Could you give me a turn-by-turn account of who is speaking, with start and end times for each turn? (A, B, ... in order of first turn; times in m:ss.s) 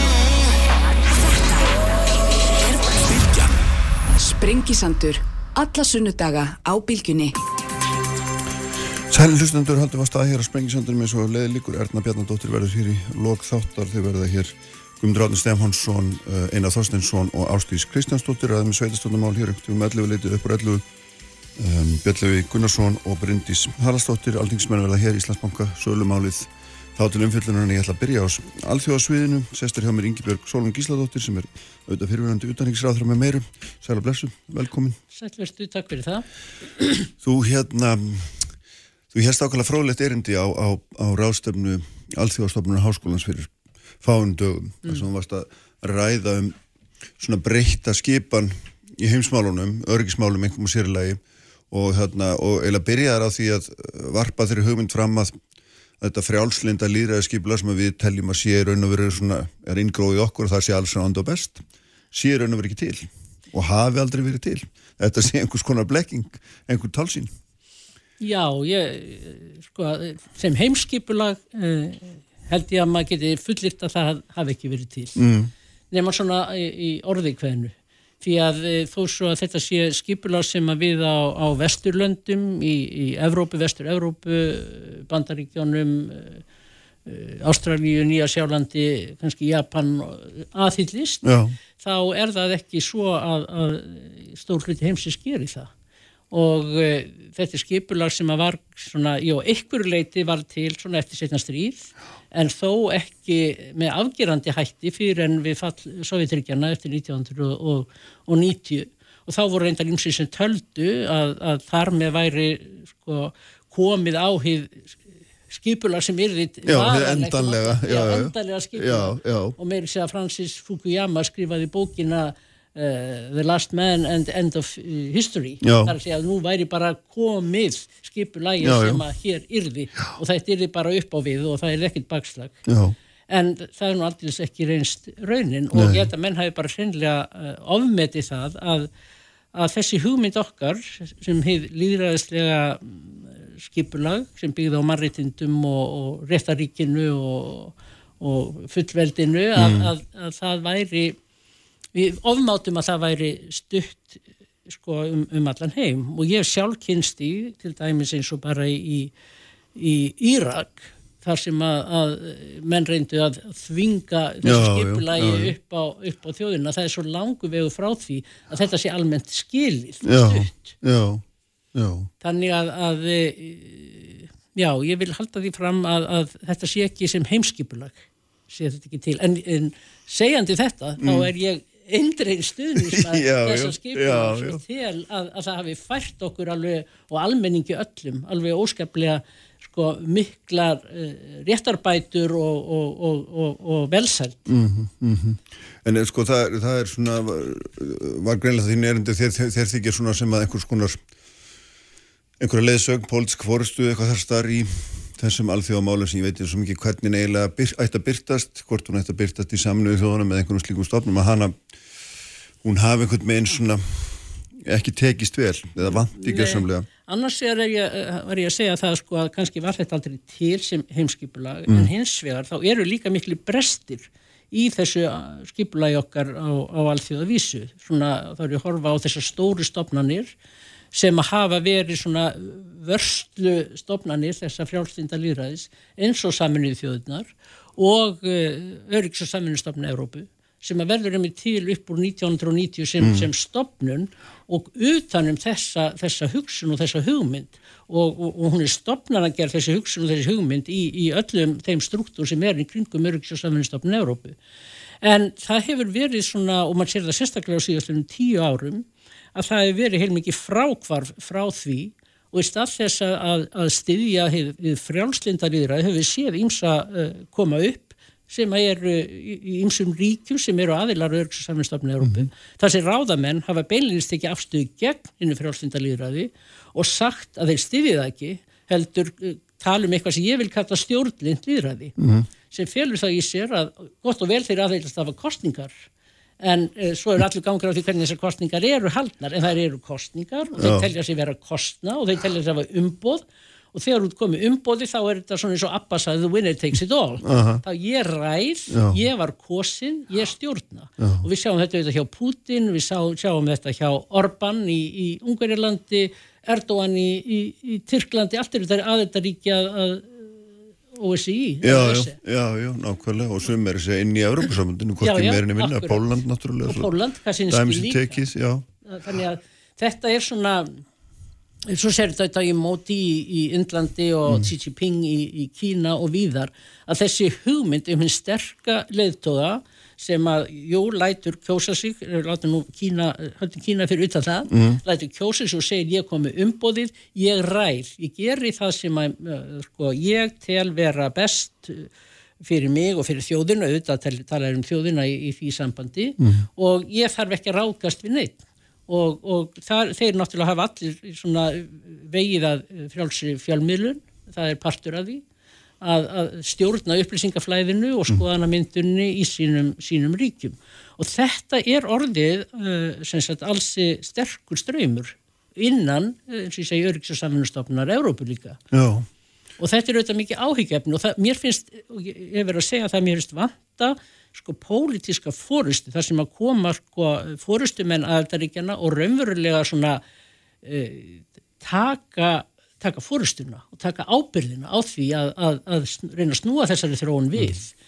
0:01.0-0:03.4 A
0:04.1-0:07.3 A
0:09.1-0:20.8 B
0:21.6-0:35.0 B
0:35.1-0:36.2 C
0:37.2-0:38.4 B
0:39.1-0:46.6 B
0:47.2-0:51.2 B
0:51.7-0:55.4 B
0:56.0-1:07.3 B
1:08.2-1:15.2 C
1:15.2-1:15.5 B
1:15.9-1:26.4 C
1:27.0-1:31.2 C
1:31.2-1:31.6 B
1:31.8-1:35.7 C
1:36.3-1:54.9 C
1:55.5-2:12.6 C
1:56.6-1:59.6 B
2:05.6-2:05.9 B
2:08.6-2:09.0 B
2:12.7-2:12.9 B
2:13.3-2:18.9 C
2:15.7-2:16.1 B
2:19.5-2:31.2 C
2:29.6-2:29.9 B
2:31.9-2:39.1 C
2:39.7-2:50.7 C
2:44.4-2:45.5 B
2:50.0-2:51.2 B
2:51.7-2:52.1 B
2:52.2-3:14.5 C
3:01.0-3:01.3 B
3:02.7-3:04.6 B
3:14.5-3:21.0 B
3:22.4-3:31.6 B
3:32.6-3:36.9 B
3:36.1-3:50.3 C
3:50.9-4:14.4 C
4:03.0-4:03.3 B
4:15.0-4:42.0 C
4:32.0-4:32.3 B
4:42.0-4:42.3 B
4:42.5-4:45.7 C
4:46.4-5:10.3 C
4:50.6-4:50.9 B
4:57.2-4:57.6 B
4:58.7-4:59.0 B
5:01.0-5:01.3 B
5:10.9-5:12.2 C
5:11.6-5:16.9 B
5:15.0-5:16.0 C
5:16.6-5:18.2 C
5:17.5-5:18.6 B
5:18.8-5:20.8 C
5:21.7-5:41.9 C
5:34.5-5:34.8 B
5:42.4-5:55.2 C
5:46.2-5:46.4 B
5:55.8-6:08.6 C
6:08.7-6:09.1 B
6:09.6-6:20.0 C
6:20.6-6:27.7 C